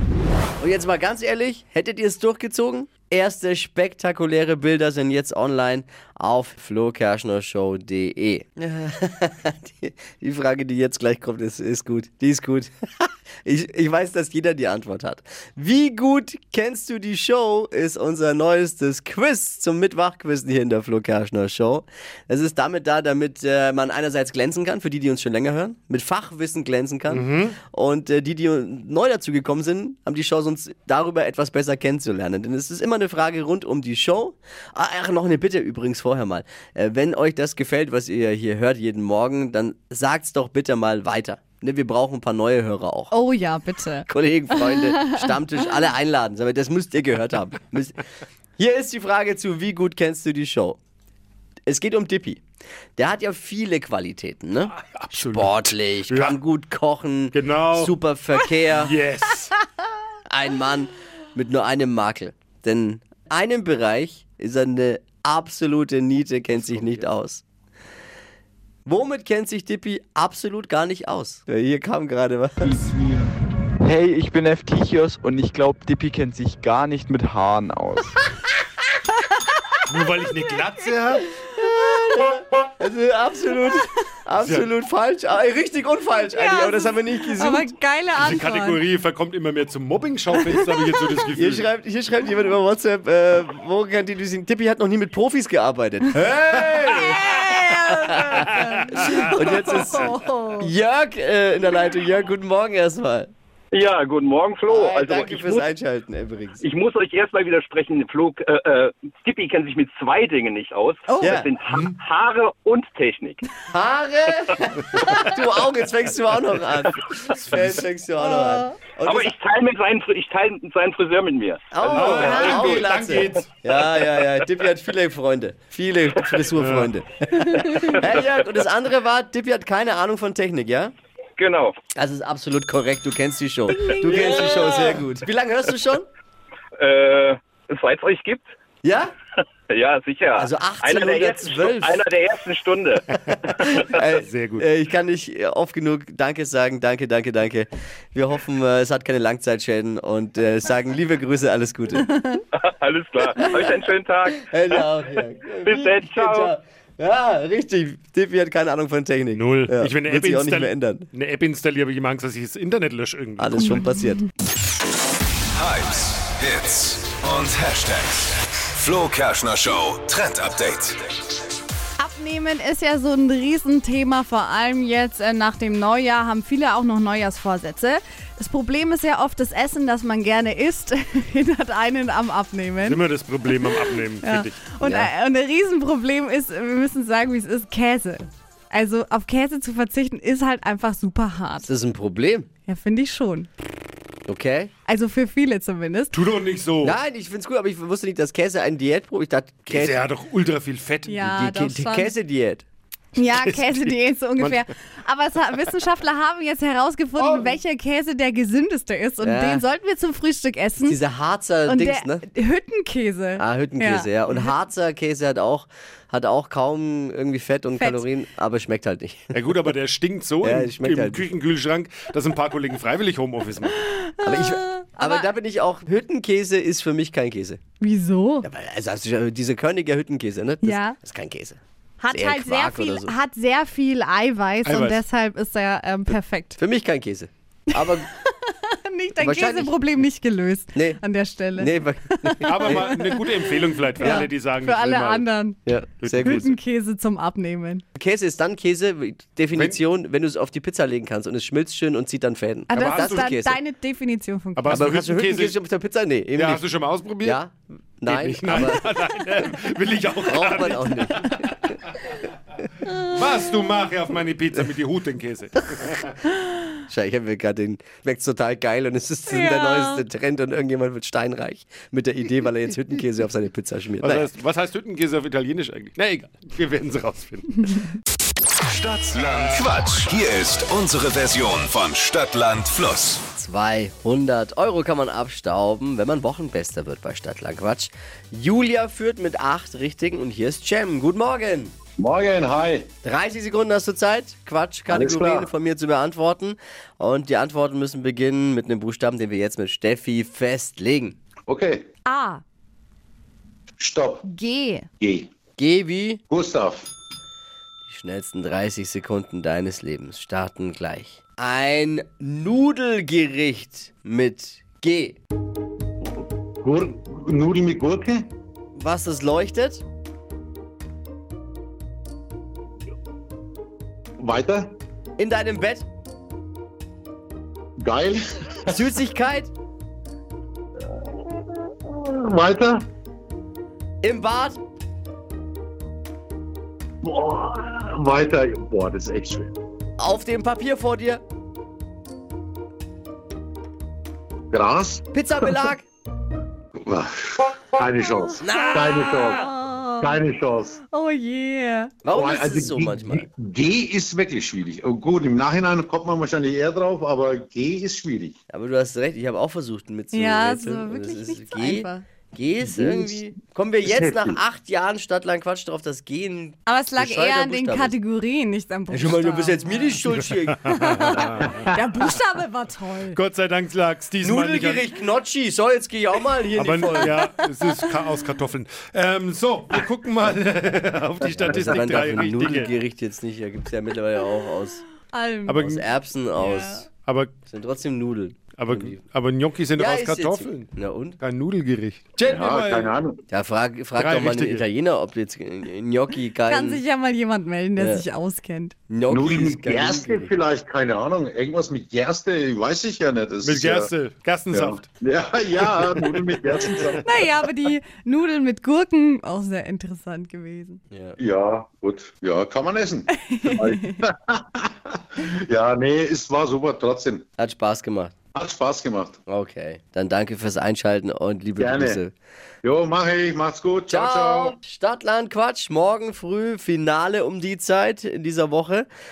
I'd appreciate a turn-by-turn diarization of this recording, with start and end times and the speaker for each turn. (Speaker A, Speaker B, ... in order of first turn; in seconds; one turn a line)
Speaker A: 0.6-43.1
Speaker B: 27.1-27.6
Speaker C: 43.1-44.1
Speaker A: 44.0-48.0
Speaker C: 44.6-45.2
Speaker A: 48.6-50.8
Speaker A: 51.7-52.4
Speaker A: 53.0-59.0
Speaker B: 54.9-56.4
Speaker B: 57.3-57.9
Speaker B: 58.7-59.5
Speaker A: 60.3-67.4
Speaker A: 68.8-72.8
Speaker D: 72.6-73.2
Speaker D: 73.8-78.2
Speaker B: 79.9-81.2
Speaker A: 81.4-87.7
Speaker C: 86.2-88.8
Speaker B: 88.2-91.7
Speaker A: 91.3-103.3
Speaker C: 97.0-100.6
Speaker E: 103.7-105.7
Speaker A: 104.7-106.6
Speaker E: 106.6-113.4
Speaker C: 111.1-111.5
Speaker A: 111.2-111.5
Speaker A: 113.7-119.3
Speaker C: 118.2-118.7
Speaker E: 119.0-122.9
Speaker A: 121.7-130.9
Speaker B: 121.9-123.5
Speaker F: 122.3-122.8
Speaker E: 123.8-124.0
Speaker E: 126.2-126.5
Speaker E: 127.8-128.4
Speaker E: 131.4-131.8
Speaker A: 131.9-136.1
Speaker E: 134.0-135.0
Speaker E: 136.8-138.5
Speaker A: 138.8-139.1
Speaker E: 139.7-143.0
Speaker A: 140.3-142.1
Speaker A: 143.3-152.1
Speaker B: 144.2-144.6
Speaker E: 152.5-156.5
Speaker A: 154.3-161.1
Speaker B: 159.3-163.6
Speaker A: 163.4-164.2
Speaker F: 165.6-171.0
Speaker C: 172.0-191.7
Speaker B: 182.8-184.6
Speaker A: 184.8-185.1
Speaker A: 191.6-192.5
Speaker C: 192.7-193.5
Speaker A: 194.3-194.7
Speaker C: 194.9-196.2
Speaker B: 196.1-197.0
Speaker A: 196.8-200.0
Speaker B: 199.7-201.2
Speaker C: 201.1-202.1
Speaker A: 201.2-202.7
Speaker C: 203.2-211.0
Speaker A: 207.2-207.5
Speaker A: 209.2-209.6
Speaker A: 210.8-212.2
Speaker C: 211.6-214.5
Speaker A: 213.4-219.3
Speaker C: 217.8-218.0
Speaker B: 219.3-223.8
Speaker A: 220.4-221.3
Speaker C: 224.0-225.3
Speaker A: 224.2-227.6
Speaker C: 227.8-228.4
Speaker A: 228.4-231.6
Speaker C: 230.6-230.9
Speaker C: 232.0-236.6
Speaker A: 232.1-233.1
Speaker B: 234.6-235.0
Speaker A: 236.6-238.1
Speaker C: 237.7-247.8
Speaker A: 239.2-239.8
Speaker A: 240.7-241.0
Speaker A: 241.6-243.0
Speaker B: 242.4-245.3
Speaker A: 244.0-244.3
Speaker A: 245.7-246.5
Speaker B: 246.0-246.5
Speaker A: 247.9-253.6
Speaker B: 249.5-249.8
Speaker C: 252.7-254.8
Speaker B: 252.8-253.3
Speaker B: 254.6-255.5
Speaker A: 254.7-256.6
Speaker B: 256.3-257.4
Speaker A: 257.2-258.9
Speaker B: 258.1-261.6
Speaker A: 260.2-261.4
Speaker B: 263.1-266.1
Speaker A: 266.8-274.3
Speaker C: 269.3-270.0
Speaker B: 274.0-277.9
Speaker F: 278.7-283.2
Speaker A: 283.3-291.7
Speaker G: 292.0-292.9
Speaker A: 293.0-301.2
Speaker G: 294.9-295.5
Speaker G: 301.5-301.8
Speaker C: 302.1-302.4
Speaker G: 303.8-304.3
Speaker C: 304.2-304.9
Speaker G: 305.0-305.3
Speaker A: 305.6-306.2
Speaker G: 306.3-306.9
Speaker A: 307.9-315.2
Speaker G: 316.6-318.3
Speaker A: 318.8-319.8
Speaker G: 324.2-324.7
Speaker A: 325.2-325.9
Speaker G: 327.8-328.8
Speaker A: 328.7-329.5
Speaker G: 331.8-332.9
Speaker A: 334.0-334.6
Speaker G: 337.0-339.5
Speaker A: 340.0-341.2
Speaker G: 344.5-345.6
Speaker A: 345.1-345.8
Speaker G: 346.9-349.4
Speaker C: 348.2-350.2
Speaker A: 348.4-349.4
Speaker G: 350.0-350.7
Speaker C: 350.8-352.0
Speaker A: 352.0-353.3
Speaker G: 352.1-358.4
Speaker A: 358.5-367.9
Speaker C: 360.1-362.0
Speaker G: 362.7-363.1
Speaker G: 363.9-364.4
Speaker C: 366.7-370.0
Speaker A: 368.9-370.7
Speaker C: 370.7-373.2
Speaker B: 373.1-374.8
Speaker A: 374.2-377.3
Speaker B: 376.5-382.7
Speaker A: 381.4-384.8
Speaker C: 385.1-385.6
Speaker B: 385.5-385.8
Speaker A: 385.6-386.8
Speaker C: 386.4-386.8
Speaker B: 387.0-387.3
Speaker A: 387.4-388.9
Speaker B: 388.6-392.9
Speaker A: 389.7-391.2
Speaker G: 392.2-393.2
Speaker A: 393.3-396.8
Speaker B: 393.9-394.6
Speaker C: 396.5-398.7
Speaker A: 397.8-398.0
Speaker A: 398.9-400.3
Speaker G: 399.1-403.9
Speaker B: 403.4-404.9
Speaker G: 404.5-407.1
Speaker C: 407.0-410.8
Speaker A: 410.9-411.2
Speaker G: 411.2-414.6
Speaker C: 413.3-414.0
Speaker G: 415.5-417.3
Speaker A: 417.4-418.1
Speaker G: 418.3-419.2
Speaker A: 419.3-422.1
Speaker G: 421.6-422.0
Speaker G: 422.6-424.6
Speaker A: 423.9-428.9